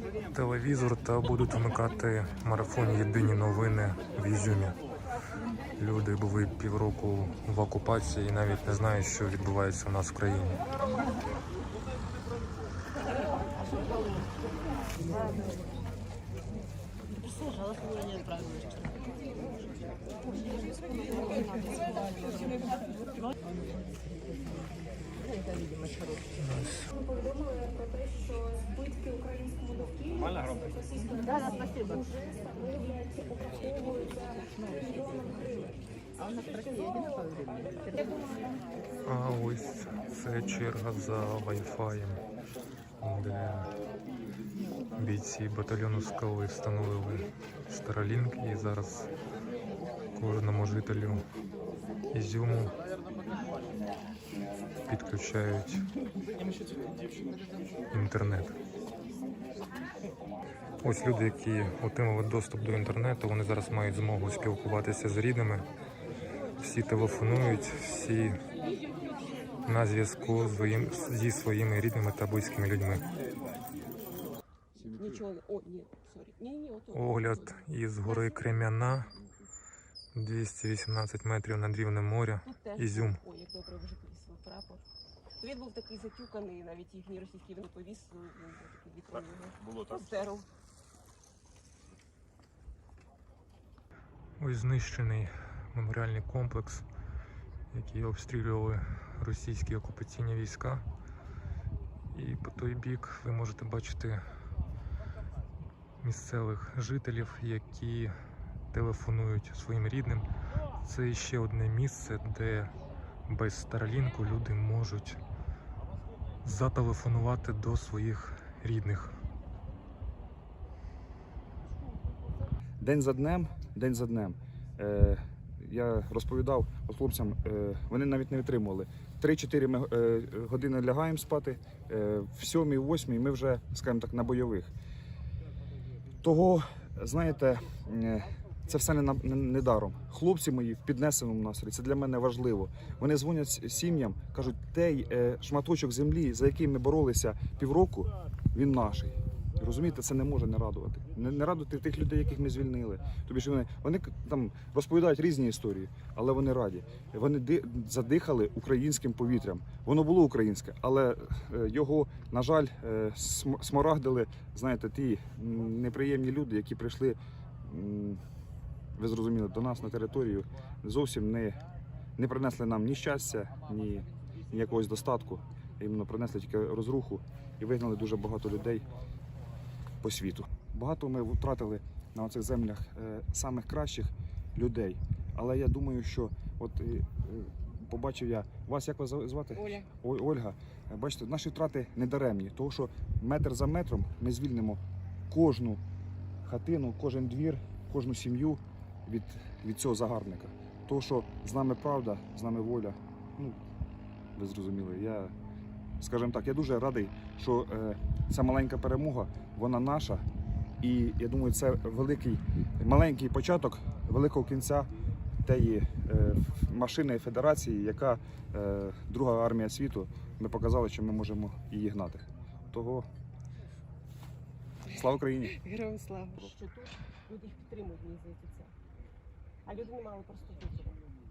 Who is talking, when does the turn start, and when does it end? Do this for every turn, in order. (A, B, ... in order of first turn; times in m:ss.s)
0:00.3-0:04.8 A
0:05.8-0:10.6 A
0:17.5-0:18.1 B
0:20.8-0:22.8 B
0:26.4-0:26.9 A
0:27.0-0:38.2 C
0:39.0-0:42.2 A
0:43.0-0:43.7 A
0:44.9-0:49.1 A
0:50.2-0:51.3 A
0:52.1-0:52.7 A
0:54.8-0:55.9 A
0:57.9-0:58.6 A
1:00.8-1:05.7 A
1:06.6-1:08.4 A
1:09.6-1:13.1 A
1:14.8-1:15.2 D
1:14.8-1:19.3 B
1:16.9-1:19.1 A
1:20.1-1:23.2 A
1:22.4-1:24.8 B
1:25.4-1:30.5 B
1:34.4-1:36.8 A
1:37.7-1:40.8 A
1:42.1-1:44.2 A
1:46.0-1:48.1 A
1:48.7-1:50.2 A
1:50.8-1:52.7 A
1:53.2-1:55.2 A
1:56.4-1:59.1 A
2:02.8-2:14.7 D
2:16.2-2:48.2 D
2:49.0-2:51.6 D
2:52.2-2:58.9 D
3:00.0-3:15.8 D
3:09.5-3:09.9 B
3:16.4-3:23.6 D
3:24.4-3:25.3 D
3:26.0-3:30.2 D
3:30.8-3:34.9 D
3:35.4-3:43.1 D
3:44.8-3:45.6 D
3:45.4-3:48.7 B
3:49.6-3:51.0 B